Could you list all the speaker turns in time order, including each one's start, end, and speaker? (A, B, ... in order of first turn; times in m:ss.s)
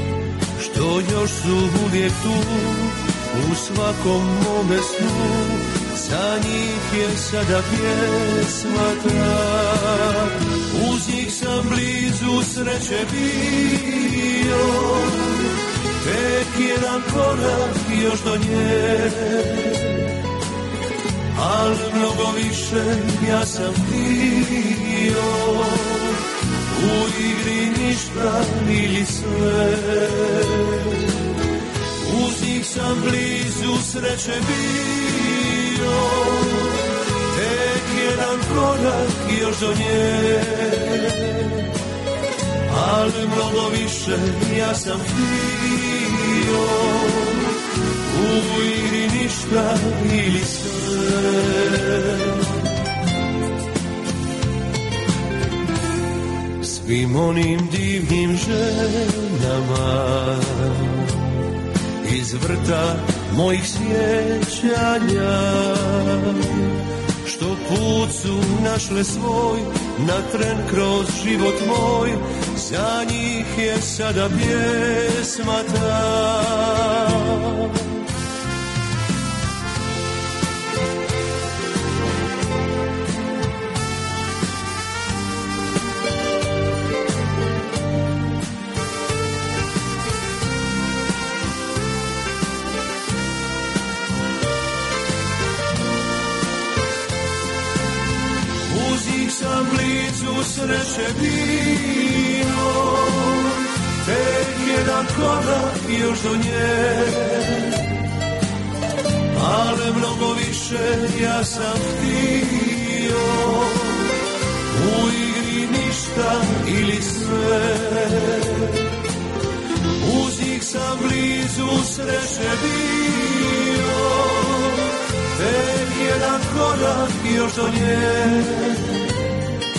0:00.6-0:20.0 A
0:21.3-0:31.1 A
0:32.0-0:36.8 A
0:37.3-0:41.6 A
0:42.7-0:52.4 A
0:56.6-1:01.2 A
1:02.0-1:06.6 A
1:07.2-1:17.8 A
1:38.6-1:47.8 A
1:49.3-1:54.0 A
1:54.7-1:58.8 A
2:00.0-2:09.0 A